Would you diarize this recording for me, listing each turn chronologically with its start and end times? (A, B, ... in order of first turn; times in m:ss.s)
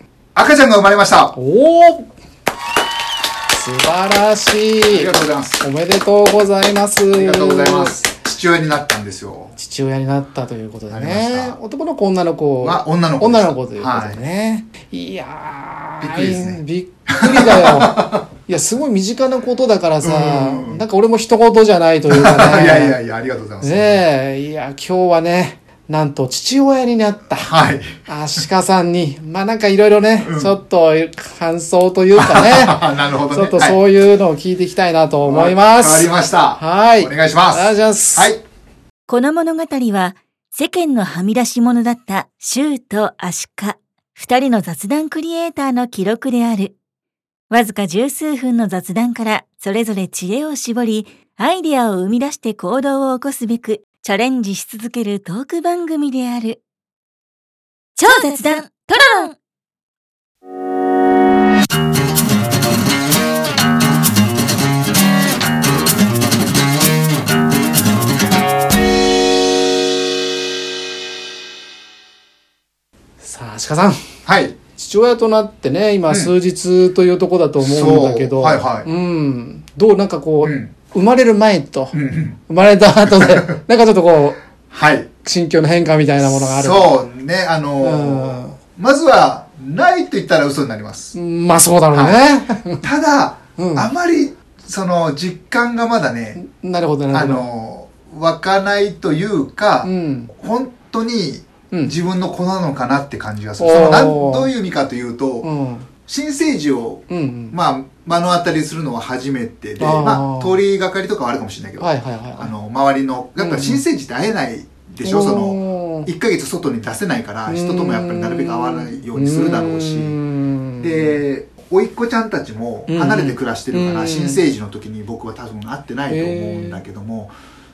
0:00.3-0:01.4 A
0:01.3-0:02.1 B
0:03.5-0:08.2 B
0:04.9-0:05.6 A
0:07.1-0:09.5 A
0:09.6-0:23.0 B
0:10.9-0:11.6 A
0:12.6-0:14.2 A
0:16.0-0:18.2 A
0:20.0-0:20.8 A
0:22.1-0:24.0 A
0:23.6-0:27.5 B
0:27.4-0:28.0 A
0:28.0-0:38.3 B
0:30.2-0:30.6 A
0:32.2-0:33.8 A
0:35.3-0:38.4 A
0:39.1-0:46.7 C
0:47.5-0:56.6 C
0:58.0-0:59.3 C
1:13.2-1:14.0 B
1:14.2-1:14.6 A
1:14.8-1:21.9 B
1:16.1-1:16.3 A
1:17.6-1:18.9 A
1:20.4-1:20.7 A
1:21.9-1:22.4 A
1:22.5-1:24.4 B
1:23.1-1:23.5 A
1:24.7-1:25.1 A
1:25.2-1:27.0 B
1:26.2-1:31.2 A
1:27.8-1:28.6 B
1:31.1-1:32.8 B
1:31.9-1:32.2 A
1:32.8-1:36.4 A
1:33.6-1:33.9 B
1:36.4-1:37.5 B
1:37.1-1:45.5 A
1:39.8-1:40.3 B
1:43.6-1:44.5 B
1:45.4-1:45.9 B
1:46.1-2:00.2 A
1:47.1-1:47.5 B
1:49.8-1:50.6 B
1:51.8-1:52.5 B
1:53.4-1:53.8 B
1:55.0-1:56.1 B
1:57.5-2:01.2 B
2:00.8-2:07.3 A
2:02.9-2:04.4 B
2:06.1-2:06.8 B